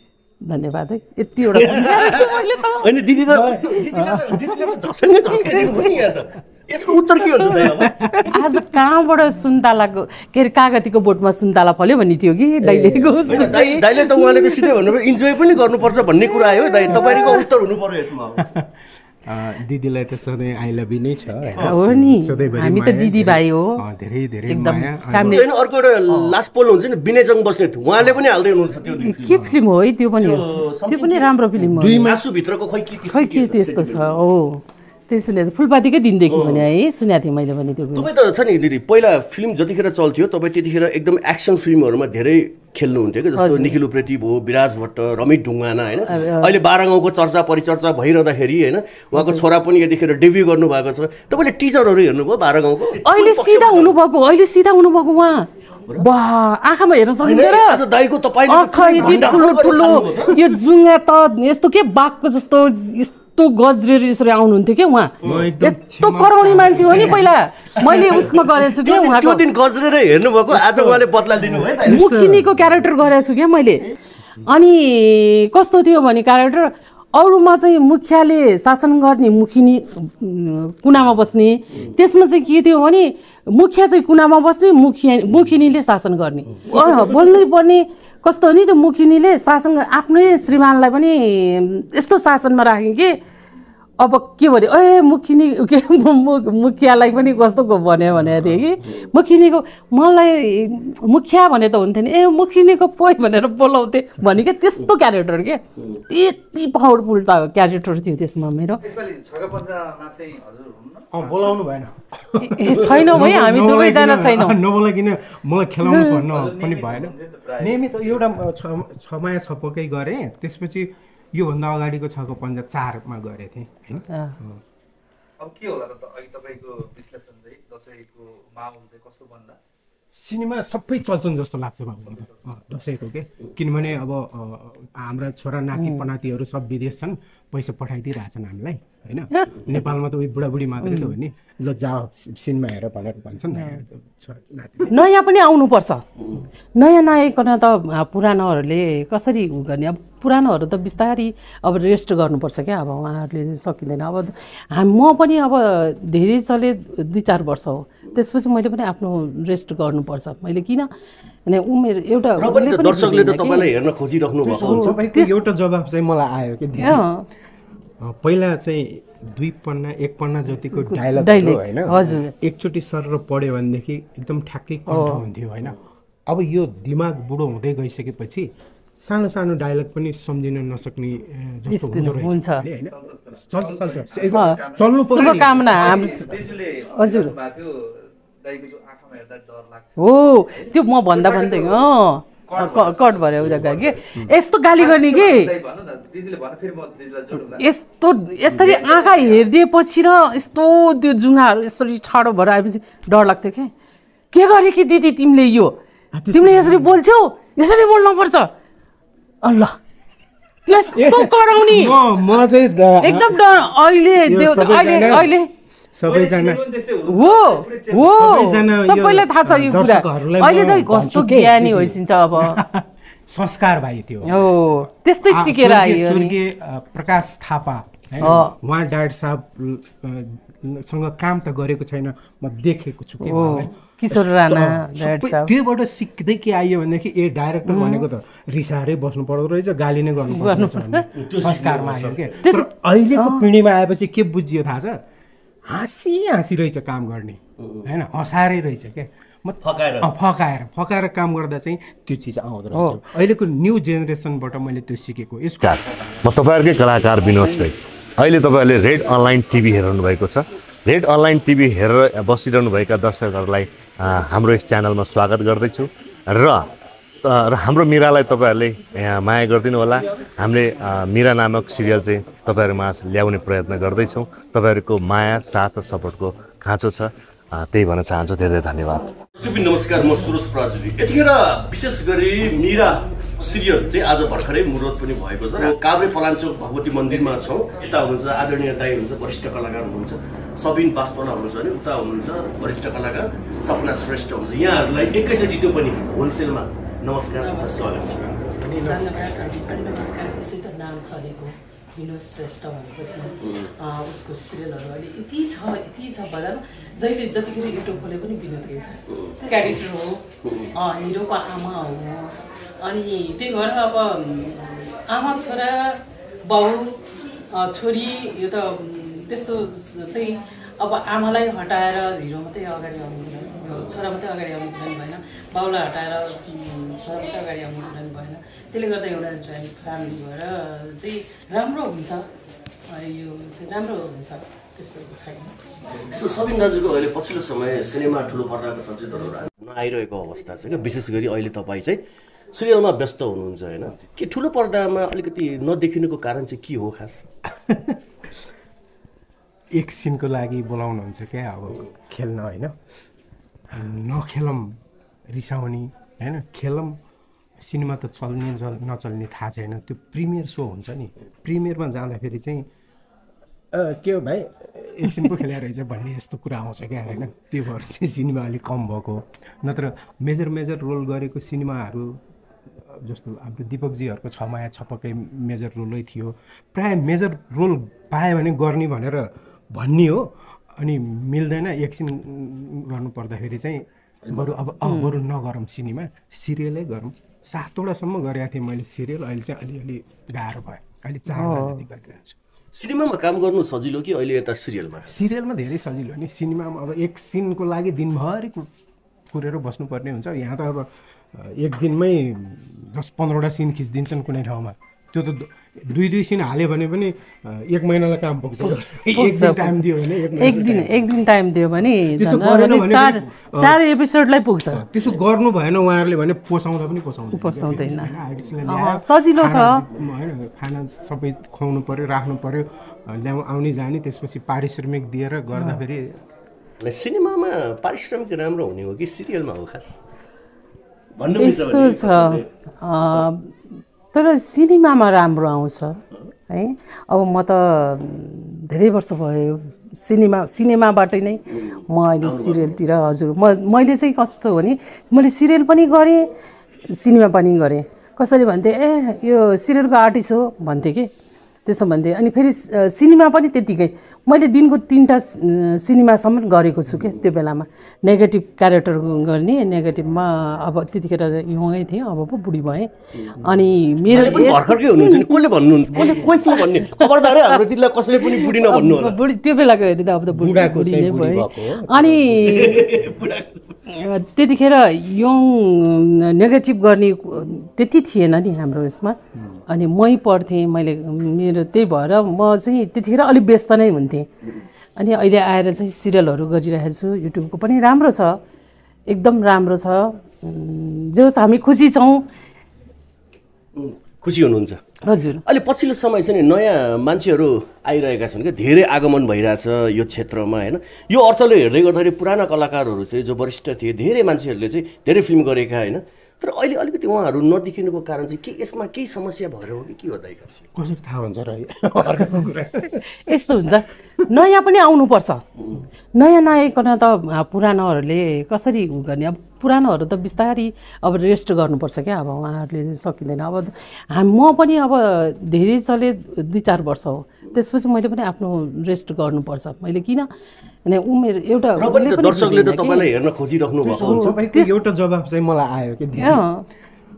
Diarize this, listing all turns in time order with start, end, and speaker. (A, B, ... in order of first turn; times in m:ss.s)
0:00.4-0:02.9 A
0:01.5-0:08.0 B
0:03.3-0:04.4 C
0:05.3-0:05.7 A
0:07.4-0:08.6 C
0:08.2-0:14.7 A
0:12.6-0:13.6 C
0:13.3-0:18.4 B
0:16.4-0:17.4 A
0:18.4-0:18.7 C
0:19.3-0:25.4 C
0:21.6-0:23.8 A
0:24.5-0:25.4 A
0:25.2-0:29.4 B
0:29.0-0:32.2 A
0:29.3-0:29.6 C
0:30.2-0:34.1 B
0:33.1-0:38.1 A
0:36.3-0:36.7 B
0:37.9-0:54.0 B
0:43.4-0:43.8 A
0:46.1-0:46.6 A
0:49.1-0:49.4 A
0:53.0-0:57.8 A
0:57.2-1:00.4 B
0:58.5-1:09.4 A
1:05.2-1:08.3 C
1:08.2-1:12.1 B
1:10.5-1:12.8 C
1:11.8-1:13.9 A
1:14.4-1:33.2 A
1:34.0-1:48.8 A
1:48.8-1:51.5 D
1:51.1-2:04.6 C
1:52.4-1:54.6 A
1:55.8-1:56.2 A
1:56.2-1:58.2 D
2:04.1-2:04.4 A
2:05.4-2:09.6 D
2:10.2-2:25.0 C
2:12.1-2:12.6 D
2:15.8-2:16.0 A
2:20.8-2:21.1 A
2:23.5-2:23.8 A
2:24.9-2:26.0 A
2:26.8-2:40.9 A
2:41.5-2:43.7 A
2:42.4-2:45.0 B
2:44.4-2:47.1 C
2:44.6-2:45.3 A
2:46.8-2:47.3 A
2:48.0-2:58.5 C
2:50.8-2:52.3 A
2:54.9-2:55.2 A
2:59.0-3:06.2 C
3:01.7-3:02.6 A
3:02.8-3:11.9 D
3:04.3-3:06.4 A
3:06.9-3:07.3 A
3:10.0-3:15.5 A
3:12.5-3:14.1 D
3:14.8-3:17.7 D
3:17.5-3:23.7 A
3:18.5-3:19.5 D
3:24.3-3:25.8 A
3:26.1-3:27.0 C
3:26.3-3:28.5 A
3:29.4-3:29.8 A
3:30.7-3:32.0 A
3:30.8-3:35.3 C
3:33.0-3:35.5 A
3:35.9-3:36.6 C
3:36.0-3:38.4 D
3:37.1-3:42.6 A
3:38.0-4:05.0 C
3:44.2-3:46.4 A
3:48.2-3:48.5 A
3:53.2-3:55.5 A
3:57.7-3:58.1 A
4:00.3-4:01.0 A
4:01.2-4:02.4 B
4:02.4-4:03.5 A
4:05.7-4:15.8 C
4:09.6-4:10.1 B
4:12.7-4:13.2 A
4:15.6-4:26.7 E
4:27.2-4:39.1 E
4:39.4-4:58.3 B
4:57.4-4:58.1 A
4:58.0-5:00.0 C
4:58.8-5:17.0 A
5:09.1-5:09.8 B
5:10.4-5:10.7 B
5:17.5-5:32.3 A
5:32.9-5:35.6 A
5:36.0-5:42.0 B
5:42.5-5:47.2 B
5:47.5-5:48.4 C
5:49.7-5:52.8 C
5:53.7-5:54.8 C
5:55.3-5:57.0 C
5:57.6-6:02.7 C
6:03.7-6:32.4 C
6:24.2-6:24.6 B
6:24.8-6:25.1 A
6:31.3-6:31.8 A
6:32.7-6:35.2 B
6:35.1-6:38.7 C
6:39.3-6:51.1 C
6:48.6-6:54.8 A
6:52.0-6:53.8 C
6:54.7-7:06.2 C
6:57.3-6:58.1 A
6:58.7-6:59.8 A
7:05.6-7:05.8 A
7:06.8-7:10.0 B
7:11.2-7:12.5 B
7:11.4-7:13.5 A
7:14.1-7:16.0 A
7:16.5-7:26.3 A
7:21.5-7:22.8 B
7:26.9-7:31.1 A
7:31.7-7:45.4 A
7:44.1-7:49.2 B
7:45.9-7:47.6 A
7:48.2-7:52.9 A
7:50.3-7:53.1 C
7:52.5-7:53.6 B
7:53.9-8:04.3 A
8:05.0-8:08.4 A
8:09.1-8:12.2 A
8:13.8-8:14.8 B
8:15.0-8:15.4 A
8:15.4-8:30.7 B
8:30.8-8:33.0 C
8:33.2-8:35.4 A
8:36.1-8:50.3 A
8:50.8-8:53.1 A
8:51.8-8:54.4 B
8:53.8-8:56.5 C
8:54.0-8:54.7 A
8:56.2-8:56.6 A